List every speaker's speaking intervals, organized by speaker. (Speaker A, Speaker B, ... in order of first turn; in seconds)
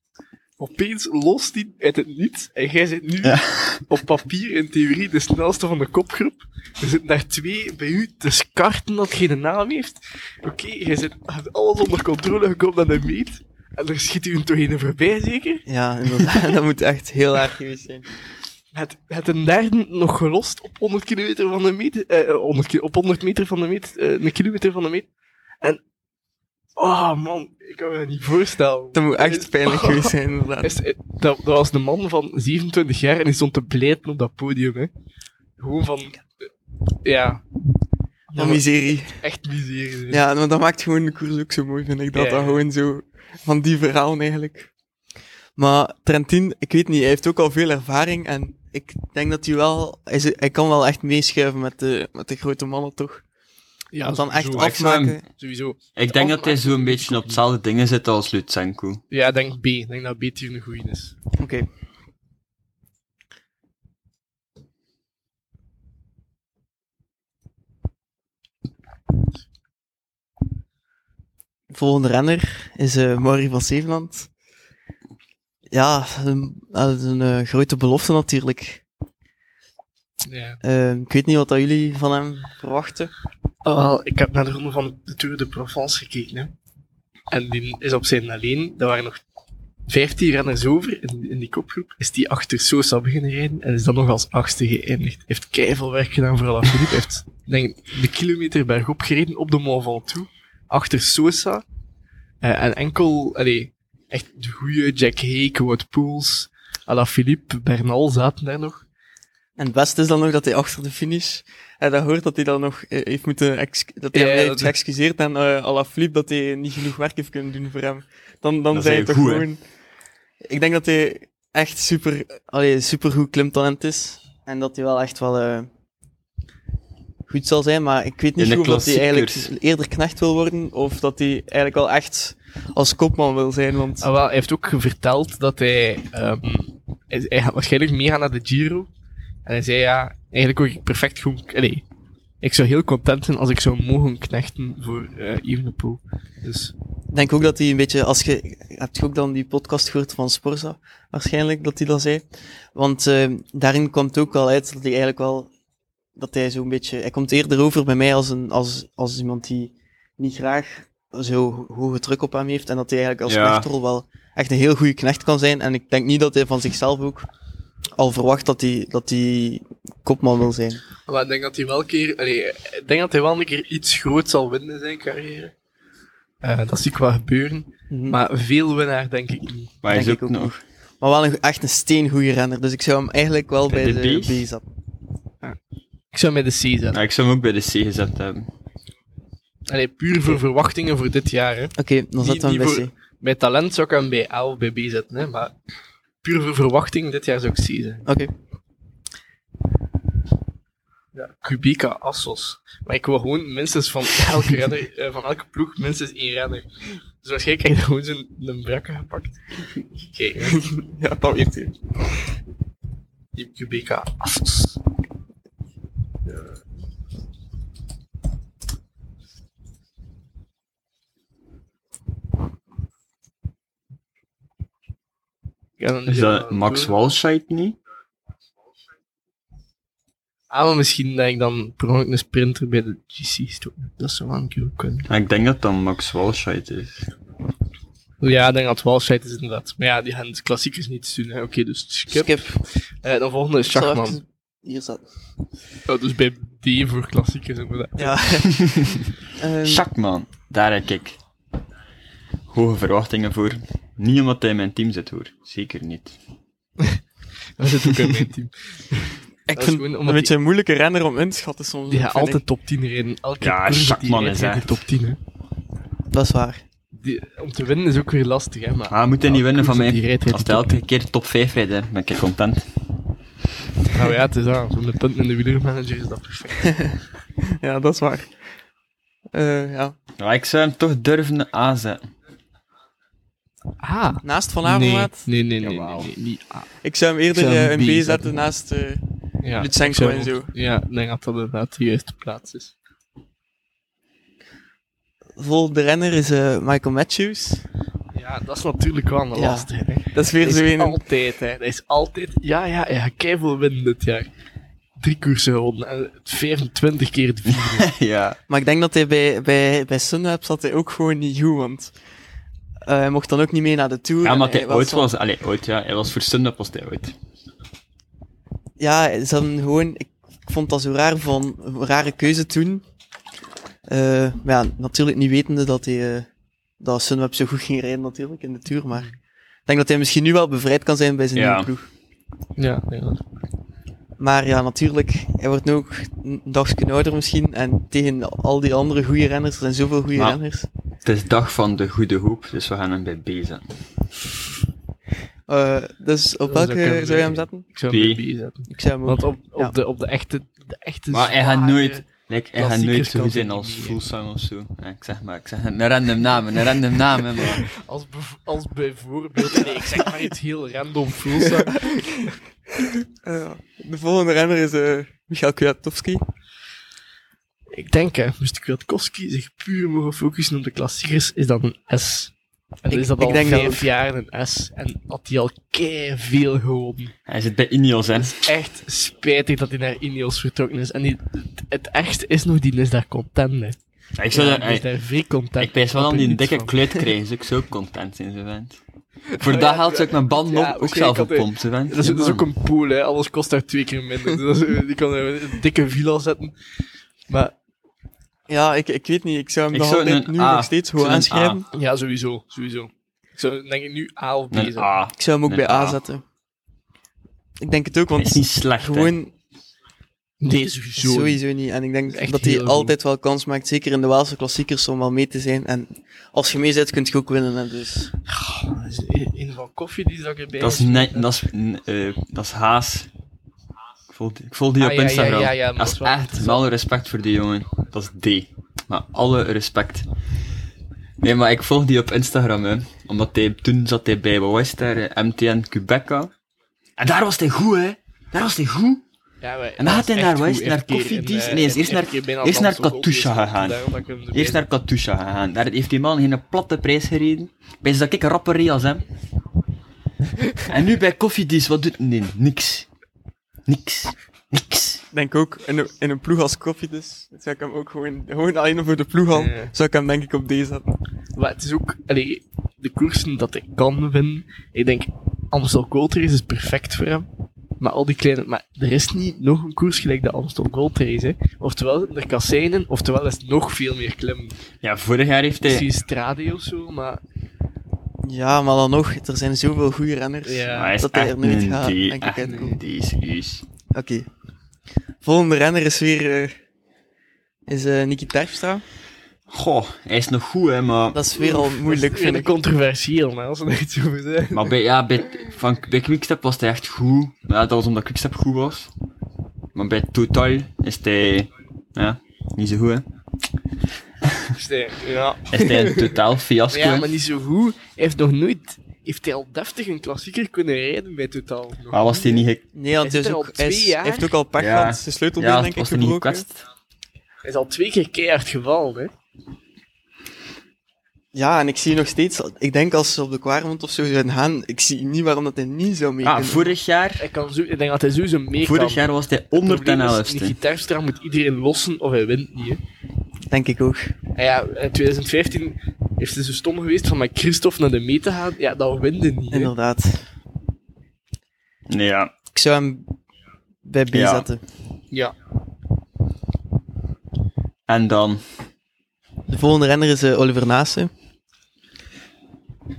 Speaker A: 0.6-15.7, 18.7-25.1, 26.8-34.9, 35.6-36.2, 37.0-37.4, 38.3-40.2, 42.1-42.6, 53.9-54.8, 55.3-57.4, 59.1-61.1, 80.2-80.6, 83.6-86.5, 87.3-89.2, 89.9-101.6, 102.4-108.8, 114.1-114.7, 134.0-138.9, 139.4-141.8, 142.4-146.7, 171.1-175.5, 176.4-179.7, 186.1-187.0, 189.7-195.5, 196.2-198.1, 201.1-206.7, 207.2-209.4, 209.9-210.6, 213.3-214.8, 216.3-216.5, 225.8-226.9, 230.5-235.1, 238.2-244.2, 245.9-248.2, 257.6-260.3, 261.9-265.2, 266.9-270.8, 273.9-276.8, 283.8-286.7, 287.3-288.3, 289.4-292.7, 298.1-304.3, 305.0-307.9, 332.6-333.2, 346.4-354.0, 357.6-362.3, 367.7-372.3, 372.8-377.1, 378.2-383.8, 384.3-387.0, 389.3-396.5, 397.3-397.5, 401.7-404.9, 410.4-411.4, 412.1-412.9, 418.3-421.3, 424.8-426.6, 439.4-444.6, 459.3-459.7, 461.4-467.3, 467.8-474.6, 475.6-477.2, 480.4-481.0, 482.4-482.7, 491.4-494.7, 504.5-506.1, 506.7-512.4, 513.0-514.3, 517.4-519.1, 527.2-532.8, 534.4-539.7
Speaker B: 3.2-3.8, 54.5-55.2, 56.0-59.0, 118.7-119.5, 128.4-129.5, 163.2-163.7, 179.8-180.6, 183.7-184.4, 186.9-188.5, 226.1-227.8, 235.1-237.1, 248.5-249.1, 249.6-251.2, 252.5-256.1, 263.4-264.8, 268.9-272.6, 280.2-282.1, 285.6-286.1, 307.5-308.4, 314.2-317.1, 331.3-331.7, 341.0-343.6, 347.9-348.2, 351.1-357.6, 377.3-378.4, 384.1-384.9, 385.6-388.8, 389.4-392.4, 399.7-401.6, 404.5-406.0, 408.1-409.1, 420.6-423.1, 424.1-430.1, 431.2-436.3, 437.0-439.0, 439.8-449.0, 450.6-452.9, 453.7-455.0, 474.8-475.9, 480.7-483.6, 489.5-491.2, 494.5-498.9, 499.7-503.1, 505.5-507.1, 511.9-512.6, 514.6-516.6, 526.2-527.2, 528.6-530.6, 541.9-542.3, 544.1-544.5, 547.9-548.4
Speaker C: 15.7-18.1, 28.9-30.7, 38.4-39.2, 40.1-44.7, 45.6-53.2, 54.0-55.2, 61.4-61.7, 71.7-74.3, 75.7-78.8, 80.6-83.1, 109.6-119.6, 120.4-125.7, 127.3-134.1, 147.1-152.2, 152.7-155.5, 156.2-167.3, 168.0-170.8, 177.9-178.2, 179.9-184.6, 191.8-192.9, 198.1-198.3, 210.4-211.7, 242.1-242.6, 243.7-245.0, 248.0-249.8, 259.5-262.4, 266.1-266.6, 277.6-278.3, 279.3-279.9, 284.2-285.3, 286.8-289.0, 289.6-290.5, 295.4-297.6, 299.3-301.0, 308.5-311.9, 312.9-315.1, 318.8-322.8, 323.9-326.3, 326.8-329.1, 329.7-331.9, 334.2-340.7, 345.5-347.6, 348.7-349.7, 361.6-366.2, 372.9-373.8, 398.5-401.6, 405.2-406.2, 407.6-409.3, 411.0-418.1, 455.1-460.9, 478.2-482.8, 483.9-484.2, 485.2-486.5, 487.7-488.8, 491.1-492.5, 512.7-516.4, 521.3-526.7, 533.5-534.1, 539.5-540.2, 542.5-543.1, 543.8-544.6, 549.5-551.1